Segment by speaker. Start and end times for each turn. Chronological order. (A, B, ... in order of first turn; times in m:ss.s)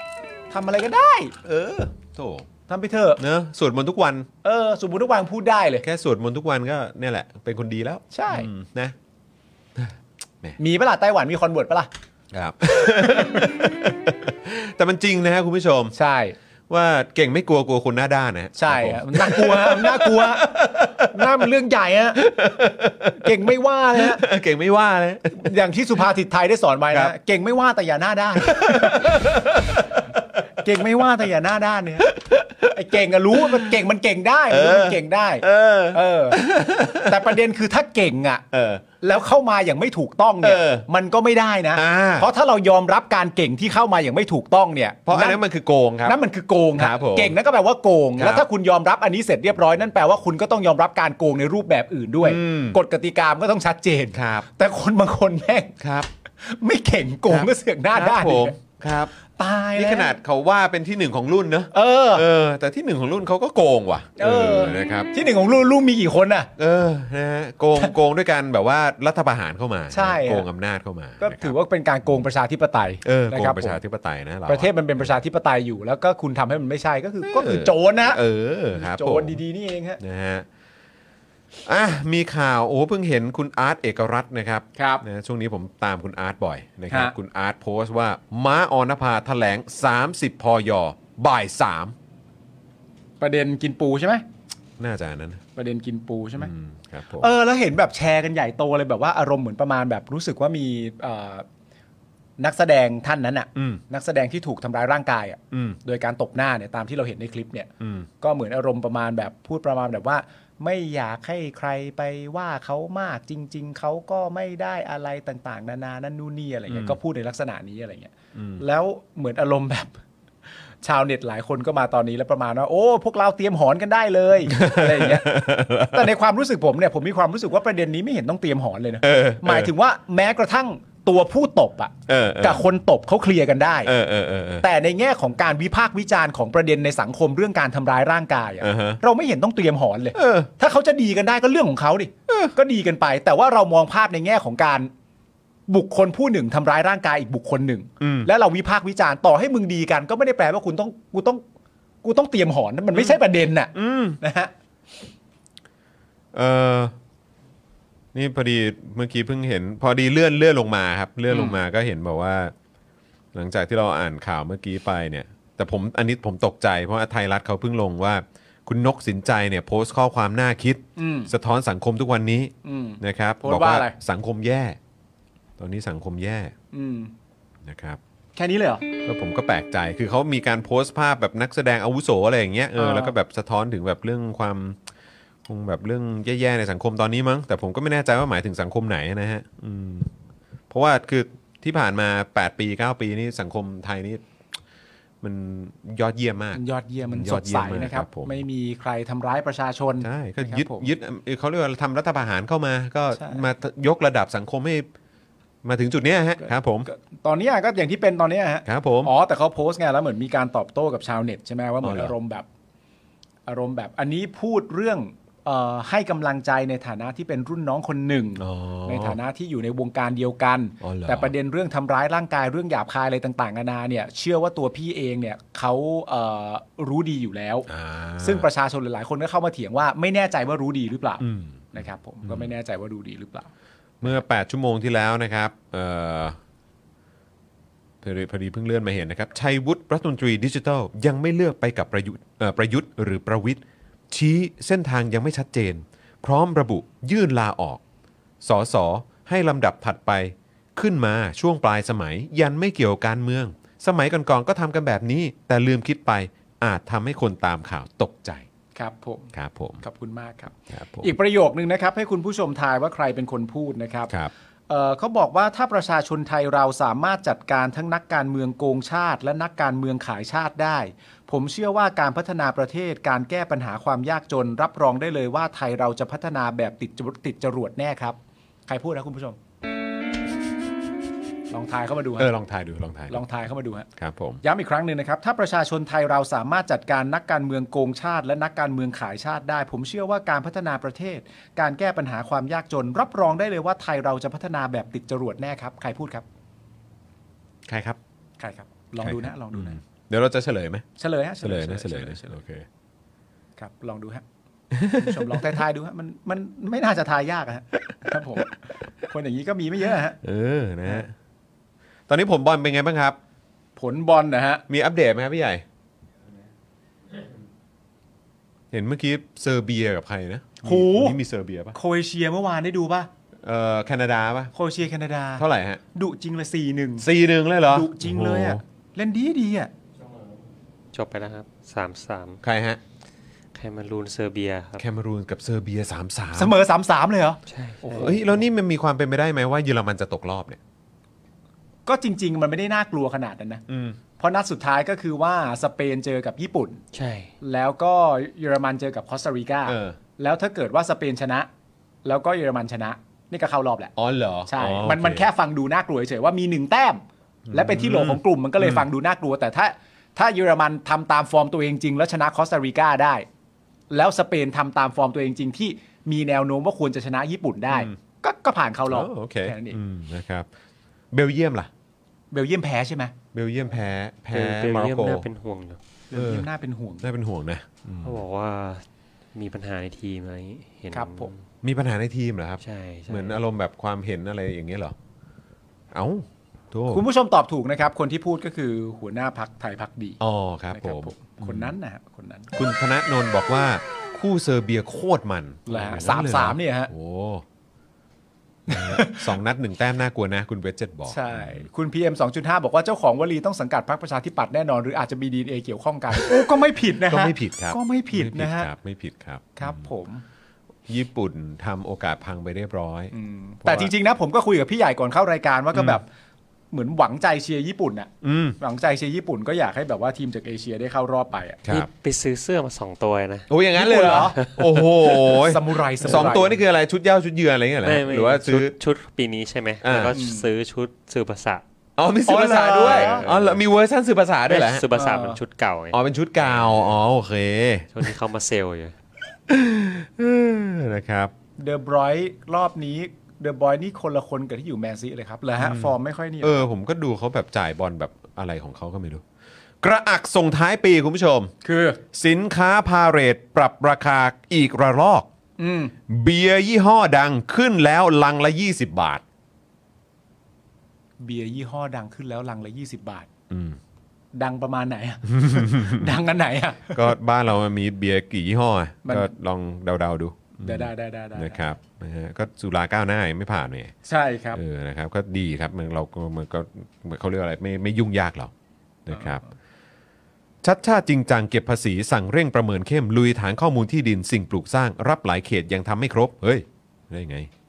0:00.5-0:01.3 A
0:01.4-0:02.5 B
0:02.7-0:03.2 A
0:03.2-0:04.3 B
0:04.4-0:05.8 A
0:05.8-0:08.9 B
0:08.1-0:08.5 A
0:09.8-0:10.6 B
0:10.6-0:11.9 A
0:12.3-0:15.9 B
0:13.0-0:13.6 A
0:15.9-0:16.4 A
0:16.7-0:21.4 B
0:18.6-0:22.2 A
0:22.2-0:23.4 B
0:23.1-0:24.2 A
0:23.9-0:25.5 B
0:25.3-0:29.5 A
0:28.4-0:30.2 B
0:30.6-0:32.1 A
0:32.0-0:32.7 B
0:32.7-0:38.4 A
0:33.3-0:33.7 B
0:34.5-0:37.3 B
0:38.5-0:38.8 B
0:39.0-0:45.4 A
0:40.4-0:40.8 B
0:41.7-0:42.3 B
0:45.1-0:46.2 B
0:46.0-0:55.7 A
0:46.7-0:47.3 B
0:48.2-0:48.4 B
0:52.2-0:52.8 B
0:54.1-0:54.5 B
0:55.8-0:56.1 B
0:56.4-0:58.6 A
0:57.3-0:59.1 B
0:59.3-1:00.2 A
0:59.7-1:05.1 B
1:01.7-1:02.2 A
1:04.2-1:06.5 A
1:06.6-1:11.5 B
1:09.9-1:10.5 A
1:11.2-1:13.8 A
1:13.0-1:15.1 B
1:14.5-1:18.2 A
1:17.2-1:19.4 B
1:18.7-1:20.0 A
1:20.0-1:20.4 B
1:21.6-1:31.9 B
1:24.8-1:25.0 A
1:33.2-1:34.2 A
1:34.8-1:35.4 B
1:35.6-1:36.5 A
1:36.4-1:37.3 B
1:37.2-1:41.4 A
1:42.4-1:47.7 A
1:43.5-1:43.8 B
1:45.5-1:45.8 B
1:47.8-1:48.1 B
1:48.2-2:00.0 A
1:56.7-1:57.0 B
1:58.3-1:58.6 B
2:00.8-2:13.9 A
2:04.5-2:06.1 B
2:09.0-2:09.7 B
2:12.1-2:12.6 B
2:13.8-2:14.6 B
2:14.6-2:24.9 A
2:18.6-2:19.0 B
2:20.1-2:20.5 B
2:22.3-2:22.5 B
2:25.7-2:31.4 A
2:28.0-2:28.3 B
2:32.0-2:34.5 A
2:32.9-2:33.2 B
2:33.7-2:34.2 B
2:36.3-2:36.9 B
2:38.1-2:42.5 B
2:41.3-2:41.6 A
2:43.3-2:54.8 B
2:51.0-2:51.3 A
2:52.6-2:54.0 A
2:55.6-2:56.5 B
2:56.7-2:57.1 A
2:57.6-2:58.0 B
2:58.4-2:58.8 A
2:59.0-3:04.8 B
3:02.8-3:03.1 A
3:05.4-3:10.1 B
3:10.7-3:14.2 B
3:15.2-3:18.4 B
3:16.5-3:20.9 A
3:20.0-3:24.9 B
3:23.2-3:23.4 A
3:25.6-3:26.9 B
3:26.4-3:32.4 A
3:28.6-3:29.1 B
3:31.8-3:32.1 B
3:33.5-3:47.7 A
3:38.4-3:39.2 B
3:40.8-3:41.3 B
3:47.7-3:48.5 B
3:48.2-3:53.5 A
3:51.2-3:52.5 B
3:54.0-3:56.4 B
3:58.0-4:07.8 B
4:08.4-4:18.4 B
4:18.7-4:24.1 A
4:19.3-4:19.8 B
4:20.7-4:21.1 B
4:24.7-4:39.4 A
4:41.5-4:42.3 A
4:42.2-4:43.2 B
4:43.1-4:43.9 A
4:44.0-4:44.4 B
4:44.4-4:56.2 A
4:57.7-4:58.0 B
4:58.4-4:59.8 A
4:59.0-5:00.8 B
5:01.0-5:02.4 A
5:01.4-5:02.7 B
5:03.6-5:04.2 A
5:04.7-5:05.4 B
5:04.8-5:10.2 A
5:10.2-5:11.1 B
5:12.1-5:13.2 B
5:13.8-5:14.6 A
5:14.7-5:15.6 B
5:18.7-5:21.8 B
5:20.6-5:21.2 A
5:21.7-5:23.1 A
5:23.4-5:24.5 B
5:24.5-5:27.1 A
5:25.4-5:25.8 B
5:27.0-5:28.6 B
5:27.7-5:29.7 A
5:30.0-5:30.4 C
5:30.9-5:32.4 C
5:32.4-5:32.8 B
5:33.5-5:34.8 C
5:34.8-5:36.5 B
5:36.3-5:38.3 A
5:37.5-5:38.2 C
5:37.9-5:40.6 B
5:41.8-5:43.6 A
5:43.7-5:44.0 B
5:44.2-5:46.8 A
5:46.9-5:47.3 C
5:47.4-5:51.5 A
5:49.6-5:50.0 B
5:52.0-5:53.9 A
5:54.0-5:55.3 B
5:54.5-6:03.2 A
5:57.5-5:58.9 B
6:03.9-6:09.8 A
6:07.7-6:08.0 B
6:08.9-6:10.5 B
6:11.1-6:11.7 B
6:12.3-6:13.1 A
6:13.3-6:15.2 B
6:14.3-6:15.8 C
6:16.1-6:17.1 A
6:16.1-6:16.5 B
6:17.0-6:18.2 B
6:18.0-6:18.8 C
6:19.3-6:21.4 C
6:20.9-6:21.3 A
6:21.6-6:24.9 B
6:22.6-6:23.4 C
6:25.9-6:27.0 B
6:26.9-6:30.2 A
6:30.2-6:31.7 B
6:30.7-6:32.5 A
6:32.5-6:37.4 B
6:35.7-6:36.9 A
6:38.7-6:39.3 A
6:38.7-6:41.7 B
6:41.1-6:48.7 A
6:46.1-6:46.5 B
6:47.0-6:49.8 B
6:49.6-6:50.2 A
6:50.9-6:53.1 B
6:53.1-6:56.1 A
6:53.6-6:53.9 B
6:55.7-6:56.0 B
6:56.7-7:01.6 A
6:58.2-6:58.6 B
7:01.7-7:03.5 C
7:03.5-7:08.7 B
7:03.8-7:04.4 A
7:04.0-7:05.2 C
7:05.3-7:06.6 A
7:07.8-7:11.6 C
7:09.8-7:10.1 B
7:10.1-7:10.4 A
7:12.0-7:14.8 B
7:12.3-7:13.2 A
7:12.8-7:13.6 C
7:14.5-7:16.9 C
7:14.9-7:15.4 A
7:15.9-7:17.9 B
7:17.9-7:18.9 C
7:19.5-7:21.3 B
7:21.6-7:26.7 A
7:25.6-7:29.2 B
7:29.8-7:31.5 B
7:31.6-7:32.0 A
7:32.1-7:35.3 B
7:35.6-7:35.9 A
7:36.1-7:39.2 B
7:41.2-7:43.3 A
7:43.5-7:43.8 B
7:44.3-7:47.1 A
7:45.3-7:46.2 B
7:46.9-7:53.9 B
7:49.0-7:49.3 A
7:50.6-7:51.6 A
7:54.0-7:54.6 A
7:54.5-7:58.5 B
7:59.0-7:59.4 B
7:59.1-7:59.5 A
8:00.6-8:07.5 B